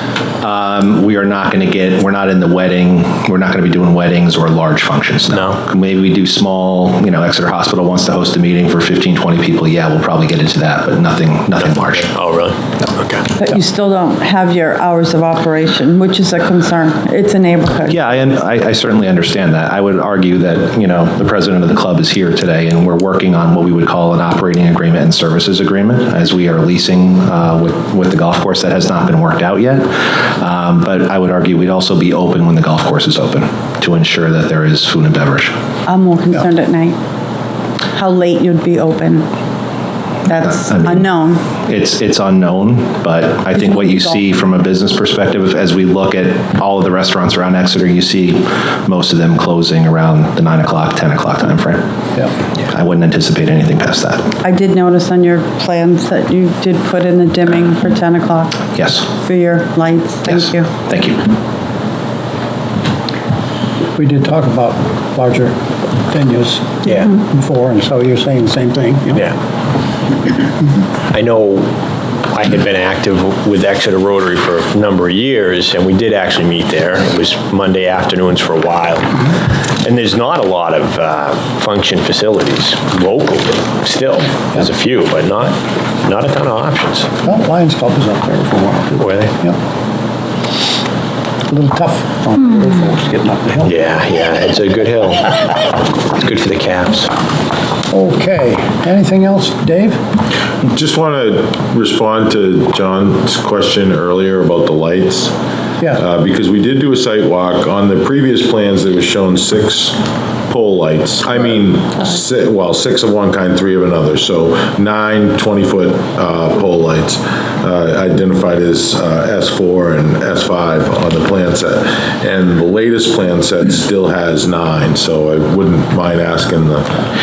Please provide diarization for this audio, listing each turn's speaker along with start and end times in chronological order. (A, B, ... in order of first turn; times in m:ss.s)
0:00.4-0:12.1 A
0:05.3-0:05.6 B
0:11.6-0:13.3 B
0:13.4-0:18.2 C
0:17.8-0:35.5 A
0:35.8-0:37.0 C
0:37.9-0:39.3 C
0:40.2-0:41.4 C
0:40.5-0:51.9 A
0:43.5-0:44.2 C
0:52.6-0:54.3 A
0:54.4-1:00.7 C
0:58.7-0:59.1 A
1:00.2-1:01.2 A
1:04.0-1:05.6 D
1:06.1-1:09.2 D
1:06.8-1:07.1 B
1:11.1-1:11.7 B
1:12.3-1:27.1 B
1:27.2-1:29.6 D
1:29.0-1:29.3 B
1:31.5-1:33.7 D
1:33.6-1:35.3 B
1:36.1-1:37.1 B
1:37.9-1:40.0 D
1:40.6-1:45.3 E
1:45.9-2:06.9 E